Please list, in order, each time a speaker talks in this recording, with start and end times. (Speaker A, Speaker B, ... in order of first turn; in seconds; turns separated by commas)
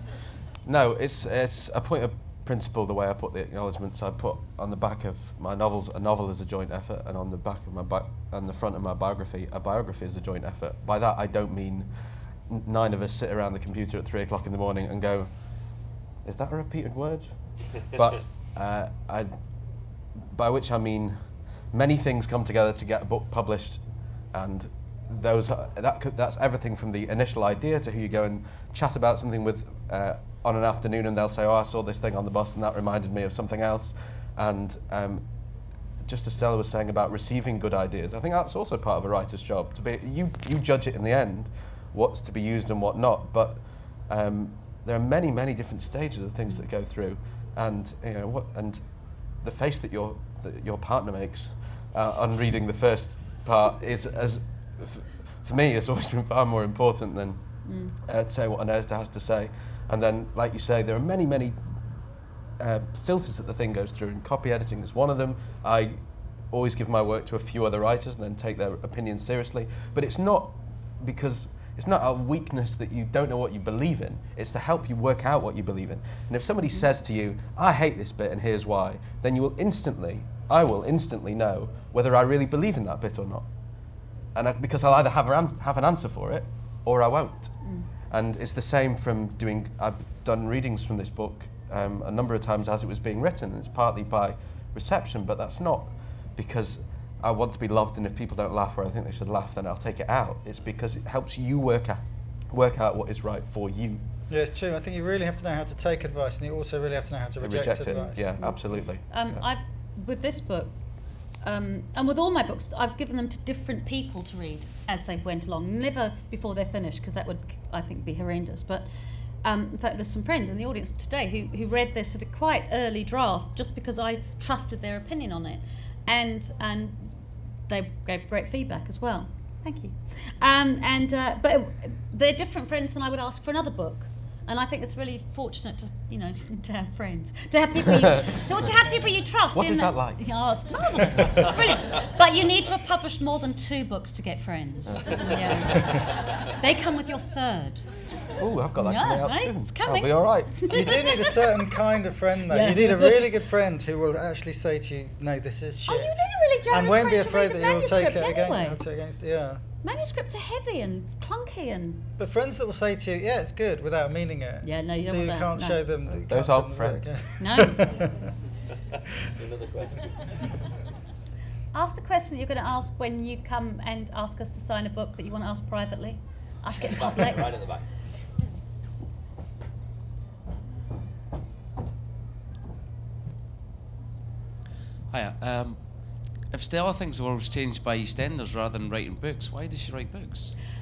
Speaker A: 0.6-19.3, Speaker A: 20.1-35.3, Speaker A: 36.0-62.0, Speaker B: 57.6-58.0, Speaker A: 62.6-83.5, Speaker A: 84.3-104.0, Speaker B: 87.6-87.9, Speaker C: 104.3-108.3, Speaker A: 107.4-109.5, Speaker B: 108.0-110.8, Speaker B: 111.4-118.9, Speaker B: 119.4-147.8, Speaker A: 137.9-138.4, Speaker A: 139.5-140.2, Speaker A: 144.9-145.9, Speaker A: 148.4-150.9, Speaker B: 148.8-151.6, Speaker C: 150.7-159.6, Speaker B: 152.5-153.3, Speaker B: 155.9-158.8, Speaker B: 159.8-162.1, Speaker C: 162.2-168.3, Speaker B: 164.6-165.8, Speaker A: 166.3-167.2, Speaker B: 167.4-167.9, Speaker D: 169.3-170.6, Speaker B: 171.7-177.6, Speaker D: 176.8-177.8, Speaker E: 185.1-190.5